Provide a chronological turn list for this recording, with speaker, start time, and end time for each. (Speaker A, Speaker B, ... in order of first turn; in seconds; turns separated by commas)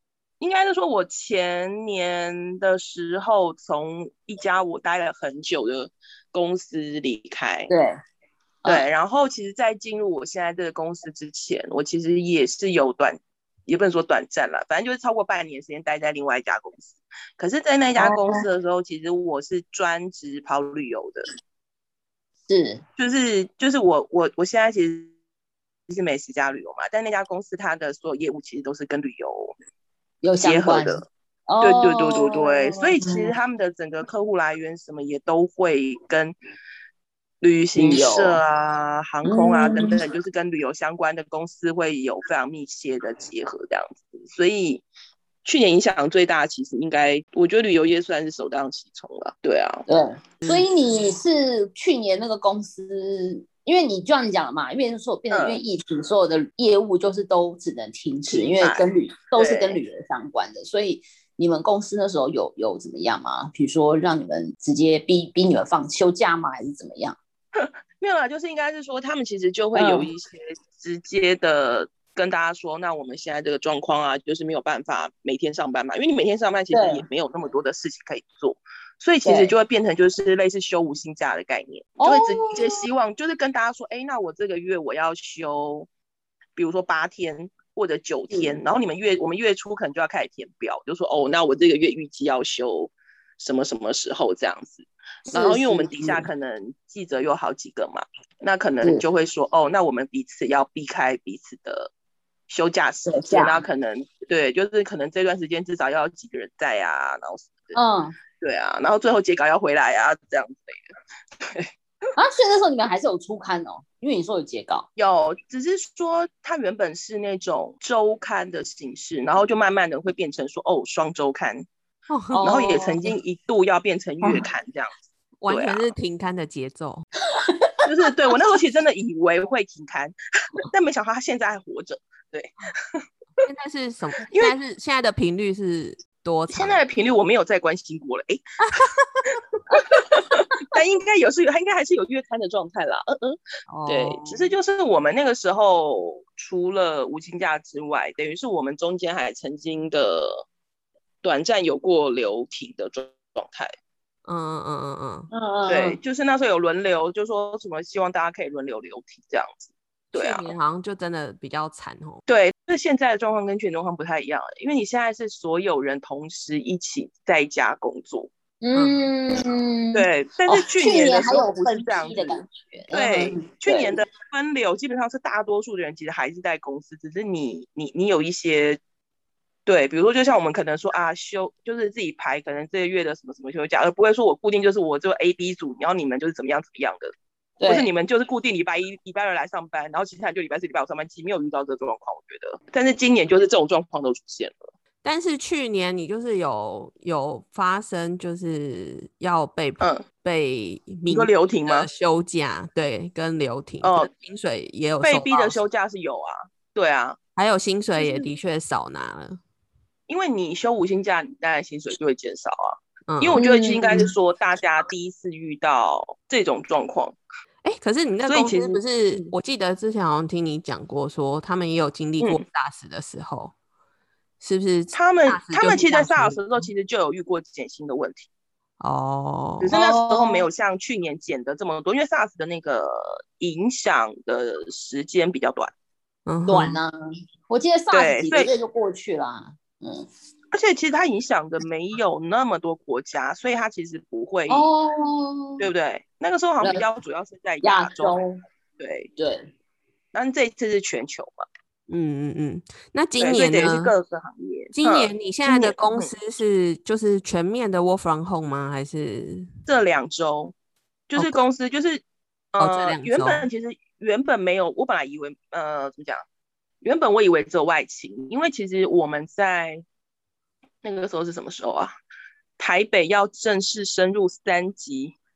Speaker A: 0.4-7.7, Speaker B: 7.7-8.0, Speaker A: 8.7-21.2, Speaker B: 18.0-18.4, Speaker B: 22.5-22.8, Speaker A: 23.0-25.1, Speaker A: 25.9-29.6, Speaker B: 30.2-33.3, Speaker A: 30.4-31.1, Speaker A: 31.6-36.4, Speaker A: 37.4-44.9, Speaker B: 37.8-38.4, Speaker B: 39.2-40.0, Speaker A: 45.4-49.9, Speaker B: 49.9-67.2, Speaker C: 50.4-50.7, Speaker A: 55.3-55.6, Speaker A: 58.3-59.8, Speaker A: 67.5-85.9, Speaker B: 69.8-70.1, Speaker B: 76.7-77.0, Speaker B: 79.2-79.5, Speaker B: 82.0-82.8, Speaker A: 86.5-101.9, Speaker B: 88.3-88.6, Speaker B: 95.3-96.3, Speaker A: 102.5-107.8, Speaker B: 103.1-103.6, Speaker B: 107.8-108.2, Speaker A: 108.4-110.9, Speaker A: 111.4-111.7, Speaker B: 112.2-114.9, Speaker A: 115.0-121.7, Speaker C: 122.1-122.5, Speaker B: 122.3-123.1, Speaker A: 122.4-124.9, Speaker C: 125.4-127.0, Speaker A: 125.5-125.9, Speaker B: 127.3-127.9, Speaker A: 127.9-133.0, Speaker C: 133.4-136.8, Speaker A: 134.3-134.6, Speaker A: 136.5-138.4, Speaker A: 139.5-150.5, Speaker C: 143.7-144.5, Speaker A: 151.2-153.7, Speaker C: 154.2-155.3, Speaker B: 155.3-156.0, Speaker A: 155.7-160.5, Speaker C: 160.1-162.2, Speaker A: 162.3-168.3, Speaker B: 168.6-174.0, Speaker C: 168.8-169.1, Speaker A: 169.9-178.8, Speaker A: 179.7-187.1, Speaker B: 187.6-187.9, Speaker A: 187.6-194.6, Speaker C: 195.0-205.6, Speaker A: 199.8-200.1, Speaker A: 201.1-201.9, Speaker A: 203.8-204.1, Speaker A: 205.0-207.2, Speaker C: 207.4-209.4, Speaker A: 208.0-208.3, Speaker A: 210.1-217.2, Speaker C: 213.1-213.4, Speaker B: 213.3-214.1, Speaker C: 217.6-223.5, Speaker A: 218.2-219.3, Speaker C: 224.4-226.7, Speaker A: 224.9-228.3, Speaker C: 228.8-229.7, Speaker A: 229.6-235.7, Speaker B: 229.7-230.4, Speaker C: 236.3-236.8, Speaker B: 236.5-236.9, Speaker B: 237.5-240.1, Speaker A: 237.9-238.5, Speaker A: 240.5-244.7, Speaker B: 244.5-245.7, Speaker A: 245.6-248.2, Speaker B: 247.6-248.4, Speaker A: 248.8-249.1, Speaker B: 249.2-249.5, Speaker A: 250.1-251.4, Speaker C: 251.9-253.9, Speaker A: 253.2-256.1, Speaker C: 254.7-259.5, Speaker A: 259.7-260.5, Speaker A: 261.1-262.0, Speaker A: 262.5-266.2, Speaker C: 262.6-263.5, Speaker A: 266.8-269.8, Speaker A: 270.8-271.9, Speaker A: 272.6-275.2